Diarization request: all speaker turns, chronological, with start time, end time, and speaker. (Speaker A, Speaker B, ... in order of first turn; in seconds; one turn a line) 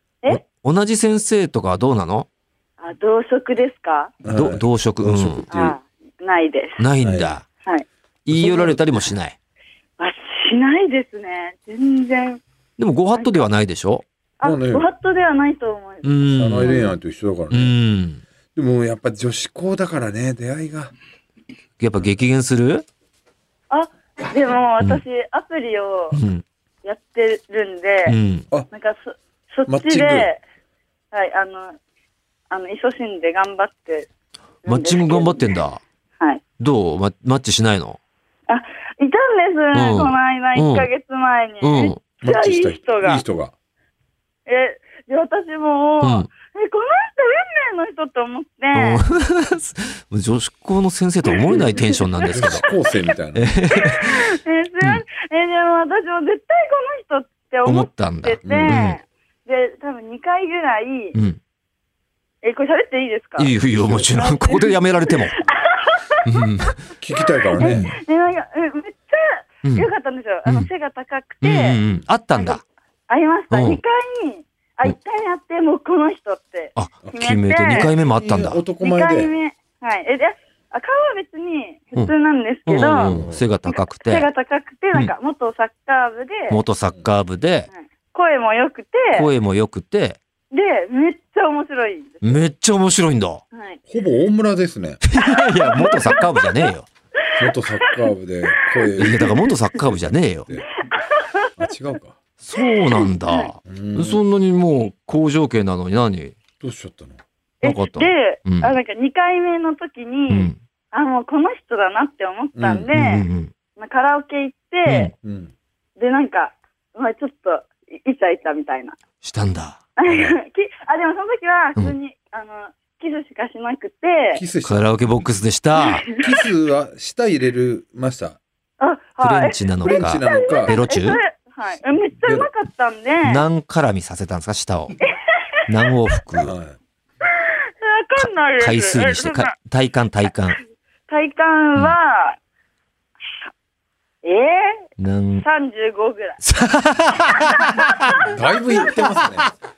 Speaker A: 0.3-2.3
Speaker B: 2.8-4.1
Speaker C: 4.2-5.8
Speaker A: 4.3-5.5
Speaker B: 5.5-6.8
Speaker A: 6.8-7.4
Speaker C: 7.0-7.3
Speaker A: 8.2-9.3
Speaker C: 8.3-8.8
Speaker B: 10.0-12.4
Speaker A: 12.8-14.0
Speaker B: 13.1-13.4
Speaker B: 14.4-16.9
Speaker C: 14.4-14.9
Speaker A: 16.0-16.8
Speaker C: 16.4-17.8
Speaker A: 17.5-18.2
Speaker C: 18.6-20.9
Speaker A: 21.8-22.9
Speaker B: 23.7-26.2
Speaker A: 26.1-26.4
Speaker B: 26.8-28.1
Speaker A: 28.1-28.5
Speaker B: 28.7-30.4
Speaker C: 29.7-30.3
Speaker B: 31.1-31.8
Speaker B: 32.5-34.1
Speaker B: 34.6-35.5
Speaker A: 34.6-35.8
Speaker A: 36.6-38.0
Speaker B: 38.5-43.2
Speaker A: 39.7-40.9
Speaker A: 41.6-42.0
Speaker C: 42.2-43.5
Speaker B: 44.5-49.0
Speaker A: 46.0-46.3
Speaker A: 48.7-52.6
Speaker C: 52.3-53.5
Speaker A: 53.3-54.3
Speaker B: 54.0-61.1
Speaker A: 57.6-59.0
Speaker C: 58.4-58.8
Speaker A: 61.1-61.4
Speaker B: 62.4-66.2
Speaker A: 63.4-65.3
Speaker A: 66.2-66.8
Speaker C: 67.0-68.0
Speaker B: 67.5-71.8
Speaker A: 67.6-67.9
Speaker A: 71.4-72.6
Speaker B: 73.1-77.9
Speaker A: 73.5-73.8
Speaker A: 76.8-78.6
Speaker C: 77.0-79.3
Speaker B: 78.8-83.1
Speaker A: 82.7-84.3
Speaker C: 83.0-83.4
Speaker B: 83.7-86.6
Speaker A: 86.5-87.7
Speaker B: 87.7-89.3
Speaker A: 89.1-90.2
Speaker B: 90.5-92.4
Speaker A: 92.2-93.4
Speaker B: 93.5-93.8
Speaker C: 93.9-95.0
Speaker A: 95.1-96.9
Speaker B: 95.3-96.6
Speaker B: 97.3-98.0
Speaker C: 97.3-100.7
Speaker B: 98.7-99.3
Speaker A: 99.0-100.5
Speaker B: 101.0-101.5
Speaker C: 101.6-102.2
Speaker A: 102.4-106.3
Speaker B: 102.6-103.5
Speaker C: 103.7-104.2
Speaker C: 106.6-107.2
Speaker B: 107.6-113.2
Speaker A: 107.6-108.7
Speaker A: 110.3-110.6
Speaker C: 112.5-112.9
Speaker A: 112.9-113.5
Speaker B: 113.8-115.1
Speaker A: 114.8-115.1
Speaker C: 115.2-115.5
Speaker B: 116.0-119.0
Speaker A: 119.2-120.3
Speaker B: 120.0-124.4
Speaker C: 124.3-125.1
Speaker A: 124.6-126.0
Speaker C: 126.2-128.4
Speaker B: 128.8-133.4
Speaker A: 129.2-131.2
Speaker C: 129.8-130.8
Speaker C: 132.2-132.5
Speaker A: 133.2-134.9
Speaker A: 135.7-136.6
Speaker C: 136.4-136.8
Speaker B: 137.8-139.5
Speaker A: 138.2-140.6
Speaker B: 141.1-142.4
Speaker B: 144.2-144.8
Speaker A: 145.0-145.4
Speaker B: 145.4-146.4
Speaker A: 146.4-148.3
Speaker C: 148.2-149.5
Speaker A: 148.8-149.5